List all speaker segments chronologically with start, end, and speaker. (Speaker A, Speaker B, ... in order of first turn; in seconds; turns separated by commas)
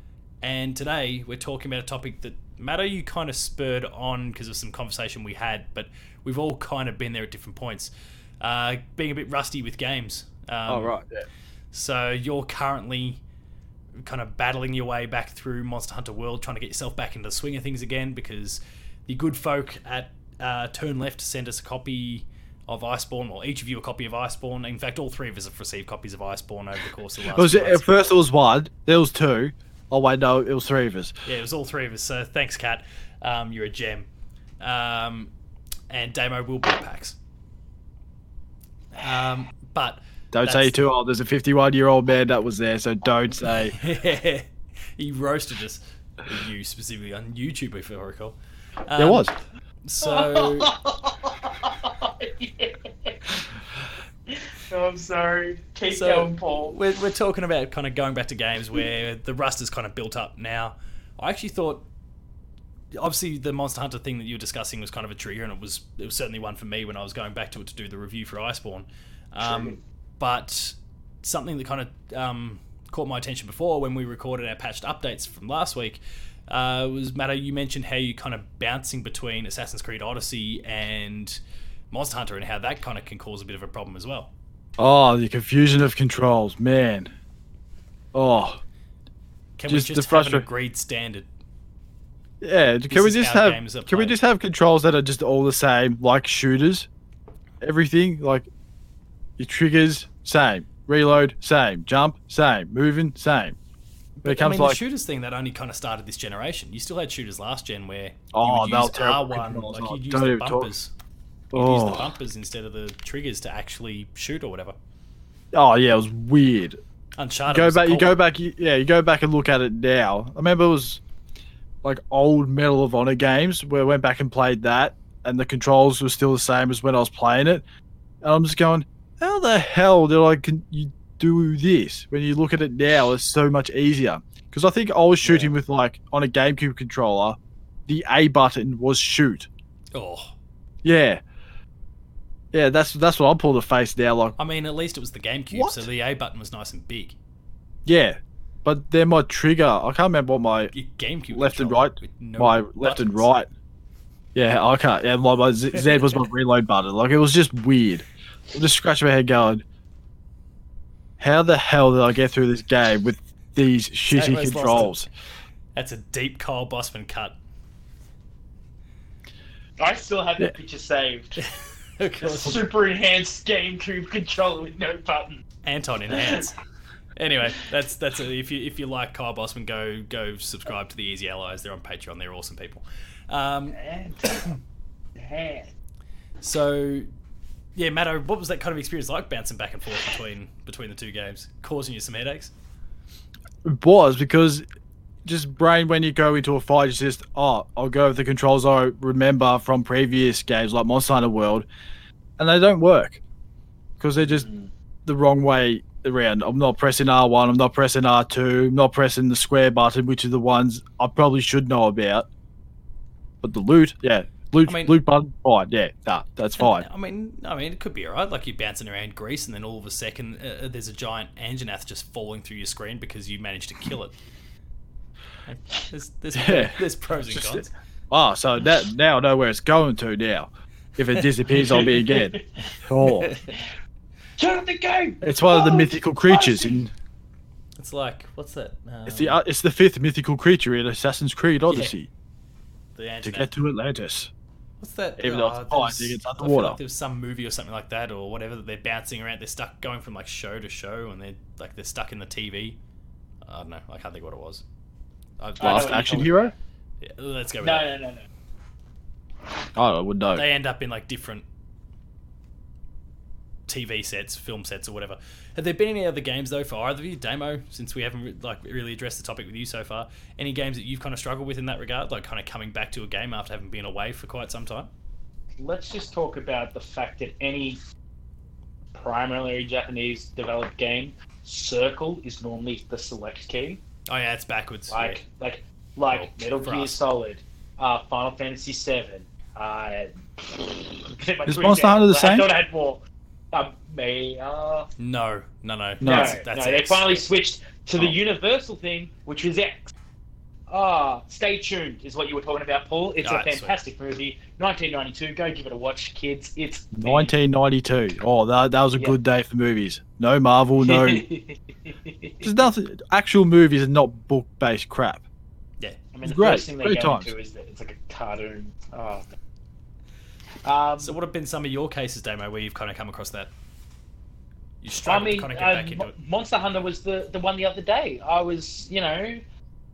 Speaker A: 0.4-10.9, Speaker B: 10.7-11.2, Speaker A: 11.7-13.2, Speaker A: 14.0-28.1, Speaker B: 27.3-31.1, Speaker A: 31.2-34.1, Speaker A: 34.6-35.3, Speaker A: 35.9-37.1, Speaker A: 39.0-40.8, Speaker B: 40.3-43.8, Speaker A: 43.6-49.3, Speaker B: 49.0-49.3, Speaker A: 49.8-50.7, Speaker C: 50.0-53.3, Speaker C: 54.3-56.8, Speaker A: 55.9-61.9, Speaker A: 62.9-81.4, Speaker C: 69.4-69.8, Speaker A: 81.9-84.3, Speaker B: 84.8-87.1, Speaker B: 88.1-88.6, Speaker A: 89.6-91.3, Speaker B: 89.7-90.5, Speaker B: 92.4-96.9, Speaker A: 92.9-94.2, Speaker B: 97.6-98.5, Speaker B: 99.4-103.6, Speaker A: 104.2-110.9, Speaker B: 104.2-104.8, Speaker B: 108.3-110.7, Speaker B: 111.5-112.1, Speaker A: 111.5-114.7, Speaker B: 115.5-116.8, Speaker A: 117.2-118.2, Speaker B: 117.5-121.0, Speaker B: 121.8-127.6, Speaker B: 128.2-139.5, Speaker A: 135.2-135.5, Speaker A: 139.9-140.3, Speaker B: 140.8-141.2, Speaker B: 142.5-144.3, Speaker A: 144.4-147.2, Speaker B: 145.5-145.8, Speaker B: 147.8-150.7, Speaker A: 150.7-153.3, Speaker B: 151.3-153.5, Speaker B: 154.3-159.6, Speaker A: 155.7-156.3, Speaker B: 161.2-165.1, Speaker A: 164.1-165.1, Speaker A: 165.7-167.4, Speaker C: 169.8-171.4, Speaker A: 172.0-172.6, Speaker C: 172.2-175.4, Speaker A: 175.6-176.6, Speaker C: 176.1-176.4, Speaker A: 177.2-184.6, Speaker C: 183.7-184.5, Speaker C: 185.2-185.7, Speaker A: 186.4-187.1, Speaker A: 187.8-192.5, Speaker B: 193.6-194.6, Speaker B: 195.2-201.7, Speaker B: 202.4-203.2, Speaker B: 204.0-204.5, Speaker C: 204.2-204.7, Speaker B: 205.1-212.2, Speaker B: 213.4-216.8, Speaker A: 214.6-214.9, Speaker A: 216.6-224.1, Speaker A: 225.4-227.7, Speaker B: 226.3-233.3, Speaker C: 231.5-232.8, Speaker A: 233.0-233.5, Speaker C: 234.4-236.8, Speaker B: 235.2-236.9, Speaker A: 237.8-239.4, Speaker B: 239.1-242.1, Speaker A: 241.7-241.9, Speaker A: 242.9-243.5, Speaker B: 243.2-244.3, Speaker A: 244.8-252.8, Speaker B: 245.2-246.8, Speaker A: 253.4-254.6, Speaker A: 255.4-256.2, Speaker C: 255.6-256.5, Speaker B: 255.6-256.5, Speaker A: 257.0-257.9, Speaker C: 257.6-258.3, Speaker B: 259.8-260.4, Speaker A: 260.3-261.4, Speaker A: 263.7-274.9, Speaker C: 275.6-277.8, Speaker C: 278.9-283.8, Speaker A: 284.1-285.2, Speaker C: 284.9-294.9, Speaker A: 286.1-286.9, Speaker B: 291.4-292.5, Speaker A: 295.0-297.2, Speaker B: 296.0-296.4, Speaker C: 296.0-299.9, Speaker C: 300.7-307.3, Speaker A: 303.2-303.8, Speaker B: 306.9-311.2, Speaker C: 310.8-312.5, Speaker B: 312.4-315.2, Speaker C: 316.1-319.3, Speaker B: 316.2-317.3, Speaker C: 320.6-321.2, Speaker A: 321.0-323.5, Speaker A: 324.8-326.1, Speaker C: 325.1-329.4